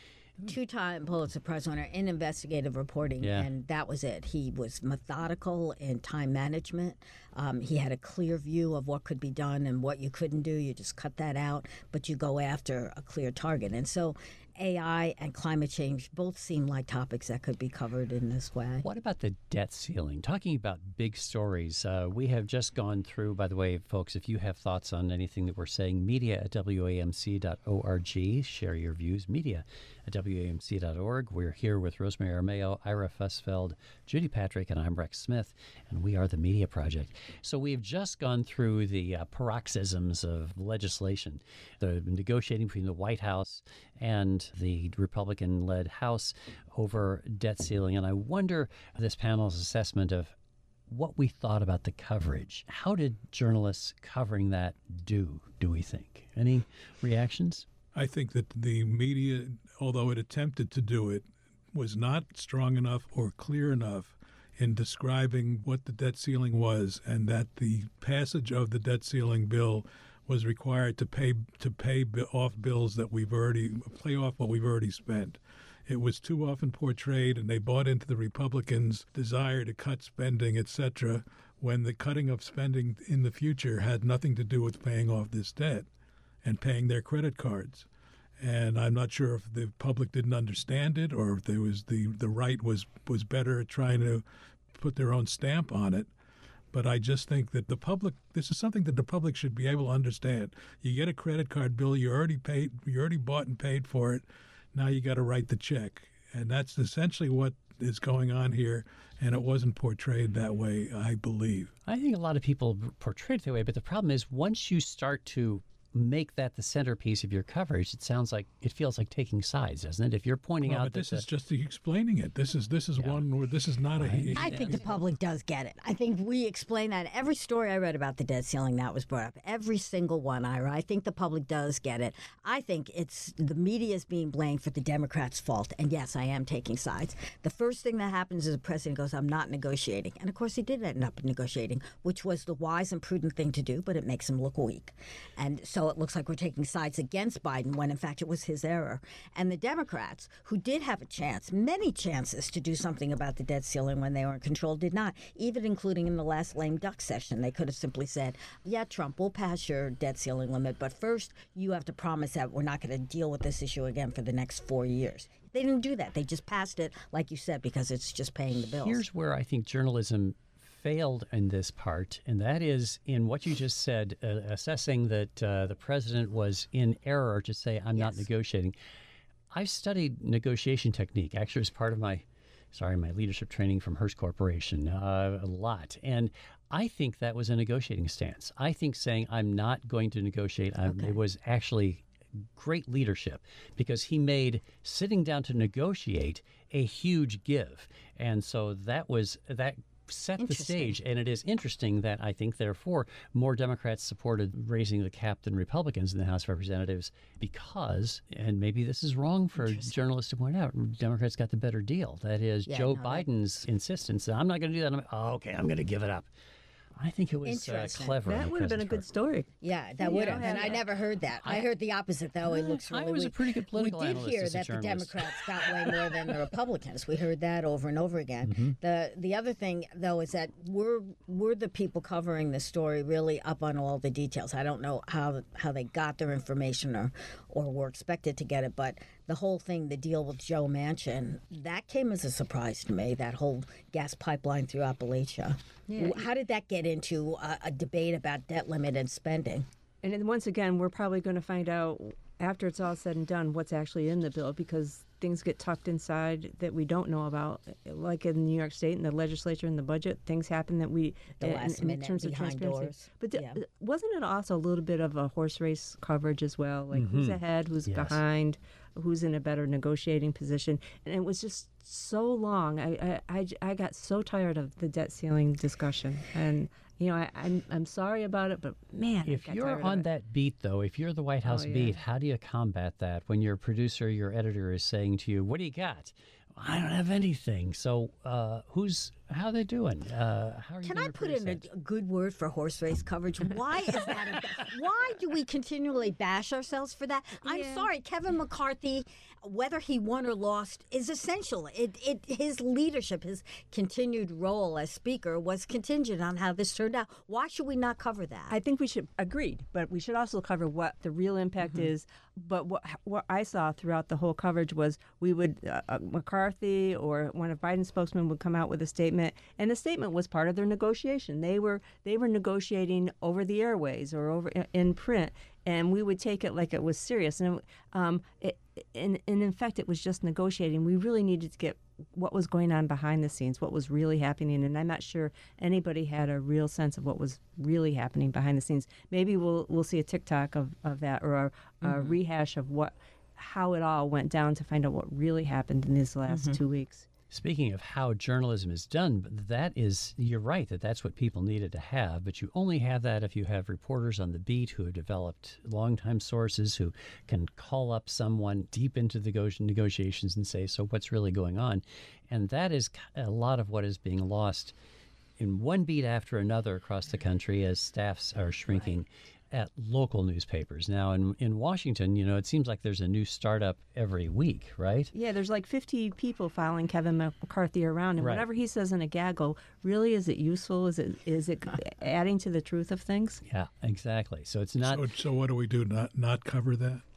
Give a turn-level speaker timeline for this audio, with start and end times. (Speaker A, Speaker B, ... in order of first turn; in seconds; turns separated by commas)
Speaker A: 0.5-18.9, Speaker B: 3.2-3.5, Speaker B: 18.8-50.3, Speaker B: 50.9-57.7, Speaker C: 58.0-85.9, Speaker C: 86.4-87.9, Speaker C: 88.4-94.2, Speaker C: 94.8-96.1, Speaker C: 96.7-111.7, Speaker B: 111.9-121.3, Speaker C: 120.7-124.9, Speaker B: 123.0-123.2, Speaker B: 124.0-124.8, Speaker A: 124.3-169.1, Speaker B: 168.6-178.8, Speaker A: 177.9-178.3, Speaker B: 179.5-192.0, Speaker A: 190.8-191.2, Speaker B: 192.6-216.3, Speaker A: 200.4-201.0, Speaker A: 209.6-209.9, Speaker A: 212.7-213.3, Speaker B: 217.0-219.1, Speaker A: 217.4-218.2, Speaker D: 218.3-220.8, Speaker A: 219.6-249.7, Speaker B: 220.1-220.7, Speaker B: 221.4-221.7, Speaker B: 222.4-226.1, Speaker B: 228.4-228.8, Speaker D: 245.9-246.2, Speaker D: 250.0-280.1, Speaker A: 261.4-263.6, Speaker B: 266.9-268.2, Speaker B: 279.3-291.7, Speaker D: 281.4-282.0, Speaker A: 290.8-308.6, Speaker D: 297.5-297.9, Speaker D: 308.5-347.1, Speaker A: 341.8-342.2, Speaker A: 346.3-346.6, Speaker B: 347.3-364.7, Speaker B: 365.4-375.1, Speaker D: 375.1-383.4, Speaker B: 378.2-378.4, Speaker B: 383.5-385.1, Speaker C: 384.8-387.0